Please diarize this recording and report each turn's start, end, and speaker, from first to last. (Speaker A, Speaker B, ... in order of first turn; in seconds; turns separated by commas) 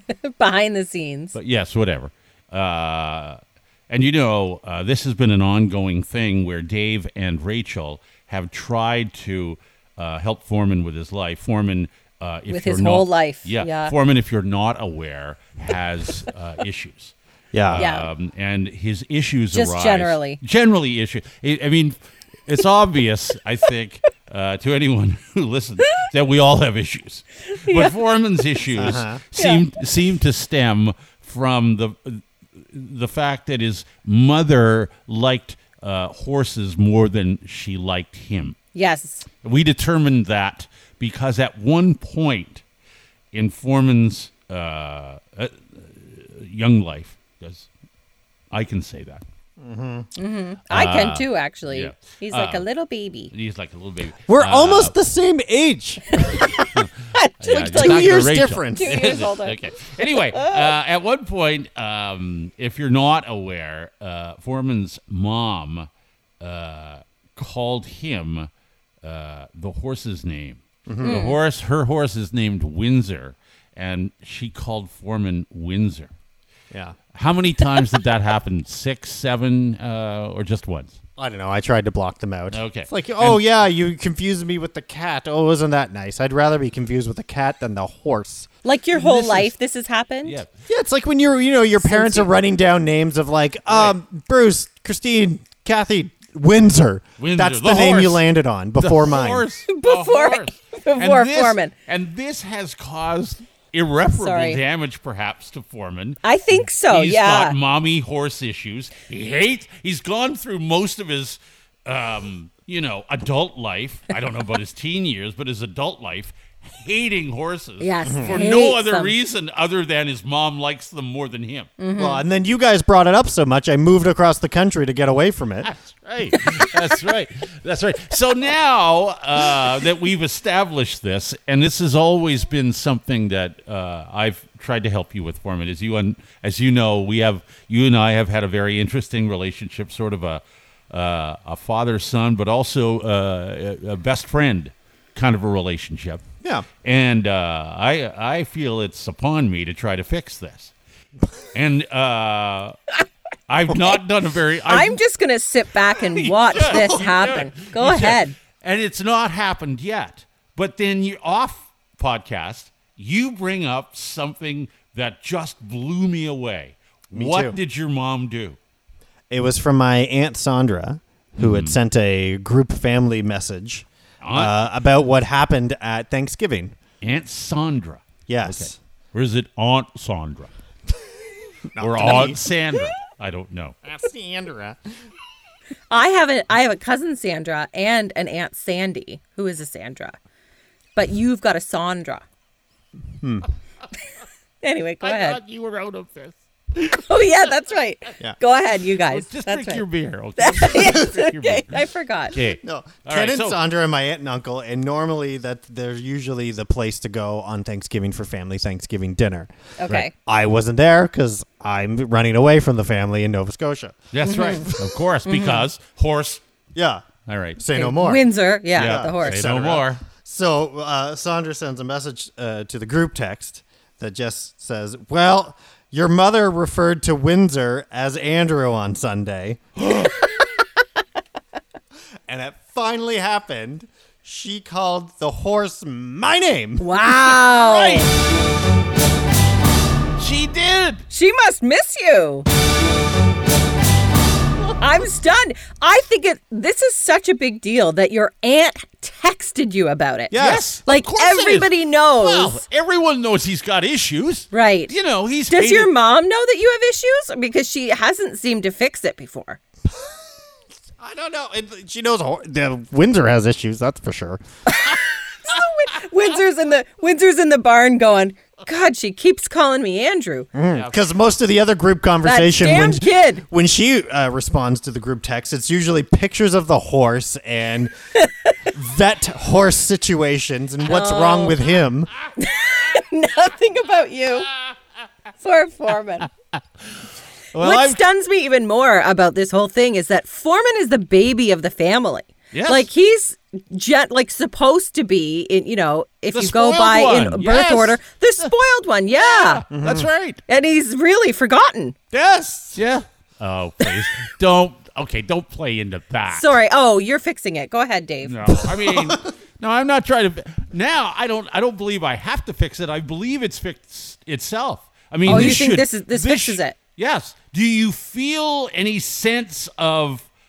Speaker A: 0.2-1.4, Speaker B: 1.3-38.6, Speaker A: 12.5-13.9, Speaker C: 17.5-17.9, Speaker A: 17.8-18.1, Speaker A: 19.5-20.4, Speaker A: 27.6-28.0, Speaker C: 28.8-29.2, Speaker A: 29.4-29.6, Speaker A: 38.8-39.3, Speaker B: 39.4-42.6, Speaker B: 43.3-47.7, Speaker B: 48.5-49.2, Speaker C: 49.6-50.1, Speaker A: 50.2-53.3, Speaker B: 50.7-52.7, Speaker B: 53.3-54.9, Speaker C: 54.3-56.5, Speaker A: 56.2-60.7, Speaker B: 56.7-65.9, Speaker C: 57.6-59.2, Speaker B: 66.4-68.5, Speaker B: 69.0-76.1, Speaker C: 70.9-71.2, Speaker A: 71.0-71.4, Speaker C: 76.7-77.0, Speaker B: 77.1-81.0, Speaker C: 81.2-88.5, Speaker B: 82.5-83.4, Speaker A: 88.6-90.4, Speaker B: 89.0-89.5, Speaker B: 90.2-90.5, Speaker C: 90.7-99.5, Speaker A: 91.8-92.3, Speaker B: 93.7-94.0, Speaker B: 97.2-98.2, Speaker B: 98.8-106.2, Speaker A: 99.7-101.7, Speaker A: 104.1-104.6, Speaker A: 106.2-107.5, Speaker B: 106.9-121.7, Speaker A: 117.8-119.1, Speaker C: 118.0-118.4, Speaker A: 121.8-122.2, Speaker C: 122.0-125.7, Speaker B: 125.6-146.3, Speaker B: 146.8-150.7, Speaker B: 151.5-152.8, Speaker B: 153.5-155.0, Speaker A: 154.7-158.4, Speaker B: 156.1-168.6, Speaker C: 167.1-167.6, Speaker C: 169.3-176.8, Speaker B: 171.4-171.8, Speaker B: 174.2-174.6, Speaker B: 177.0-180.5, Speaker C: 178.3-178.8, Speaker C: 181.7-182.4, Speaker B: 181.8-183.8, Speaker C: 183.8-184.9, Speaker A: 185.9-190.2, Speaker A: 191.0-192.2, Speaker C: 193.2-193.5, Speaker A: 194.6-195.4, Speaker B: 195.0-196.4, Speaker A: 196.8-199.8, Speaker B: 199.1-201.8, Speaker A: 200.4-202.4, Speaker B: 202.3-203.6, Speaker C: 202.6-214.8, Speaker A: 209.8-210.1, Speaker B: 214.1-216.4, Speaker A: 214.2-214.7, Speaker A: 215.3-215.7, Speaker C: 216.8-217.1, Speaker B: 217.3-217.6, Speaker C: 217.6-230.1, Speaker A: 217.7-219.4, Speaker B: 218.8-220.0, Speaker C: 232.3-236.9, Speaker A: 236.8-238.1, Speaker B: 237.2-238.1, Speaker B: 240.2-241.0, Speaker A: 241.1-242.5, Speaker A: 244.8-252.6, Speaker C: 250.3-250.7, Speaker B: 250.3-255.9, Speaker A: 254.5-254.9, Speaker A: 255.5-259.6, Speaker C: 261.0-264.4, Speaker A: 264.7-270.5, Speaker C: 270.5-277.9, Speaker B: 270.7-271.0, Speaker A: 272.2-273.4, Speaker A: 278.2-278.5, Speaker C: 278.7-282.1, Speaker A: 280.9-281.6, Speaker A: 282.4-284.5, Speaker A: 285.4-286.3, Speaker B: 287.5-288.0, Speaker A: 287.6-299.6, Speaker B: 292.5-292.9, Speaker B: 296.3-298.5, Speaker B: 299.1-300.4, Speaker C: 299.7-300.1, Speaker A: 300.5-302.0, Speaker C: 302.1-302.8, Speaker B: 302.8-306.5, Speaker A: 306.3-308.6, Speaker B: 308.2-320.3, Speaker C: 315.3-315.6, Speaker A: 315.3-316.8